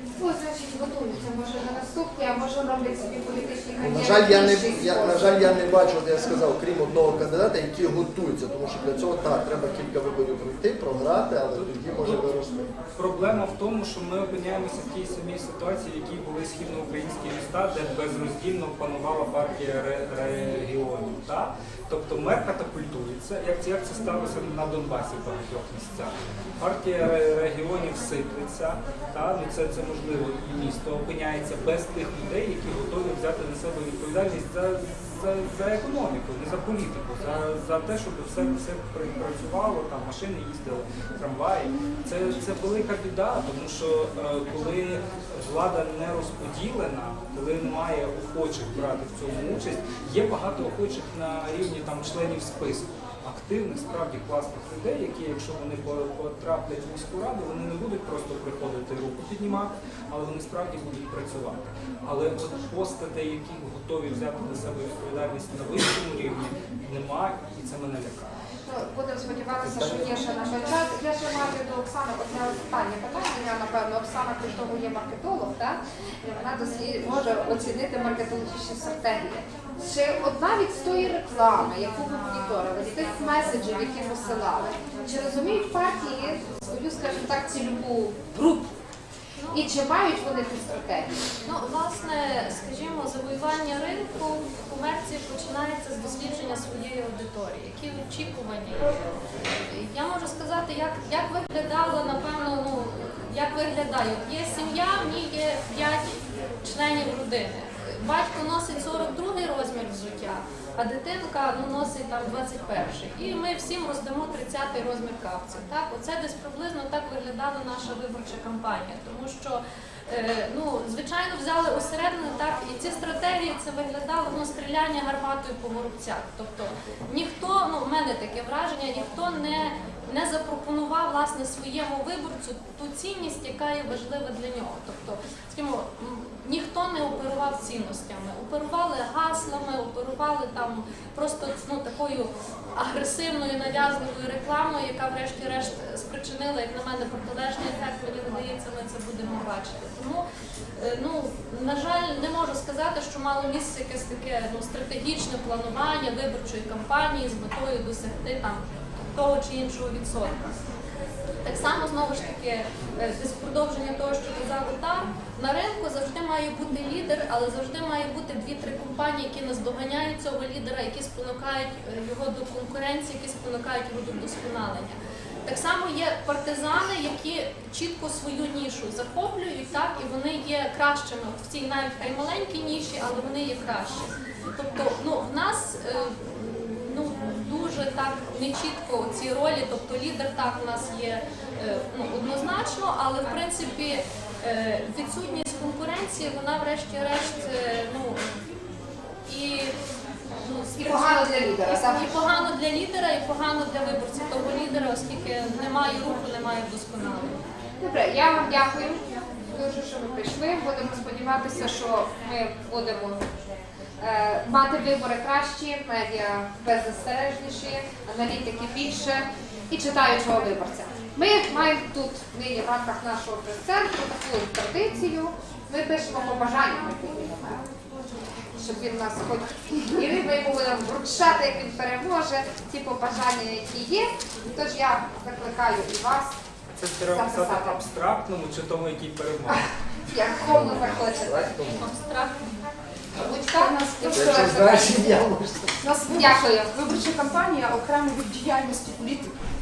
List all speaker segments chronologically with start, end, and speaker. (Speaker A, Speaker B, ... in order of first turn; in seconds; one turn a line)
Speaker A: 0.2-5.6
Speaker B: 3.8-12.7
Speaker C: 11.5-12.3
Speaker C: 12.9-68.3
Speaker A: 68.6-88.7
Speaker C: 69.6-70.2
Speaker D: 89.4-89.8
Speaker A: 89.5-91.1
Speaker D: 91.4-150.2
Speaker D: 150.8-160.6
Speaker D: 161.4-198.2
Speaker D: 199.2-199.7
Speaker D: 200.4-207.4
Speaker A: 200.8-202.1
Speaker A: 207.8-209.0
Speaker A: 209.5-213.2
Speaker A: 214.0-227.6
Speaker A: 228.6-236.4
Speaker C: 236.8-239.7
Speaker A: 237.0-237.8
Speaker A: 239.5-241.7
Speaker B: 240.4-241.9
Speaker D: 241.8-242.5
Speaker A: 243.2-245.2
Speaker E: 243.2-244.8
Speaker B: 244.1-245.8
Speaker E: 245.8-249.4
Speaker A: 246.1-246.7